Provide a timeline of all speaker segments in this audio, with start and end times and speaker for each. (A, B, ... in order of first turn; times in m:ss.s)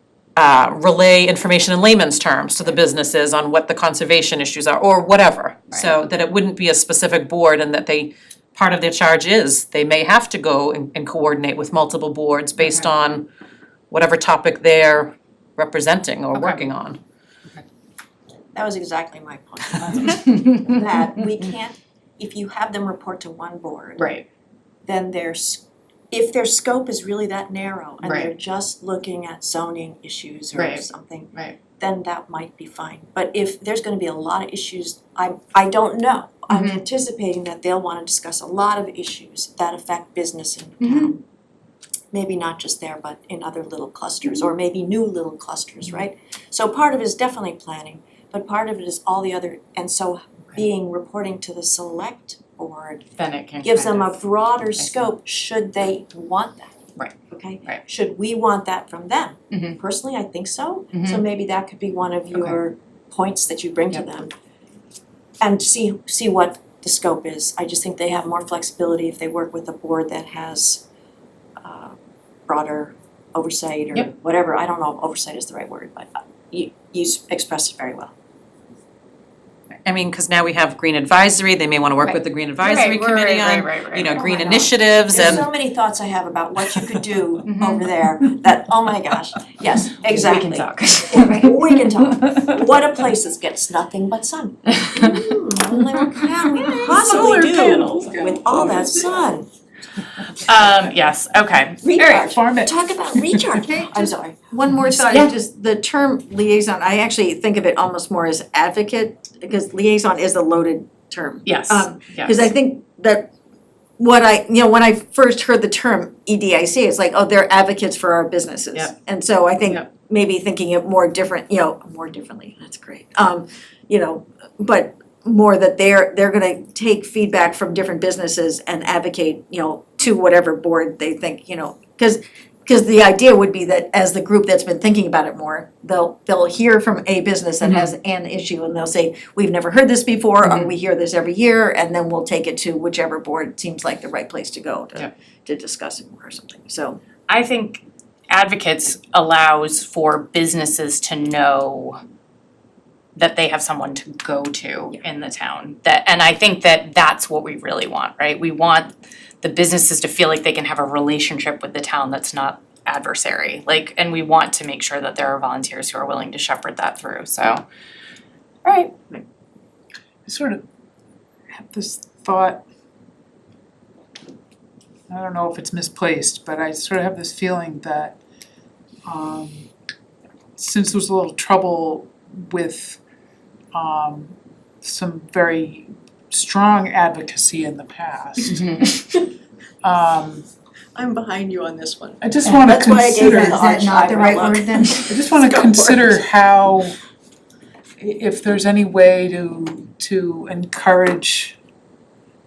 0:00.4-0:13.3 A
0:12.6-0:12.9 B
0:13.9-0:17.0 A
0:16.3-0:16.6 B
0:18.5-0:24.1 C
0:20.0-0:20.6 B
0:24.0-0:24.2 B
0:24.9-0:41.2 C
0:28.0-0:28.3 B
0:30.5-0:31.6 B
0:36.5-0:36.8 B
0:40.8-0:41.1 B
0:42.1-0:53.1 C
0:53.2-0:54.2 B
0:53.6-0:56.7 C
0:54.8-0:55.1 B
0:57.3-1:04.3 C
0:59.5-0:59.8 B
1:00.9-1:01.2 B
1:05.4-1:10.8 C
1:11.6-1:18.1 C
1:19.8-1:25.5 A
1:22.0-1:24.7 B
1:24.1-1:39.5 C
1:27.5-1:27.8 B
1:30.1-1:31.5 B
1:34.7-1:35.2 B
1:36.6-1:39.2 D
1:40.4-1:42.2 B
1:41.8-1:44.4 C
1:42.1-1:43.4 D
1:43.6-1:53.3 E
1:44.9-1:45.3 B
1:51.4-1:52.4 B
1:54.0-2:27.0 E
2:17.6-2:17.9 B
2:20.4-2:20.7 B
2:27.3-2:32.0 B
2:33.2-2:47.6 B
2:48.6-2:49.1 B
2:50.3-2:50.6 D
2:51.5-2:52.6 D
2:55.1-2:58.2 D
2:59.1-2:59.7 D
3:00.6-3:03.0 D
3:03.7-3:08.6 D
3:08.5-3:09.1 B
3:09.8-3:10.5 D
3:11.0-3:16.2 C
3:12.2-3:13.7 D
3:13.2-3:15.1 E
3:14.9-3:17.0 D
3:18.0-3:21.6 D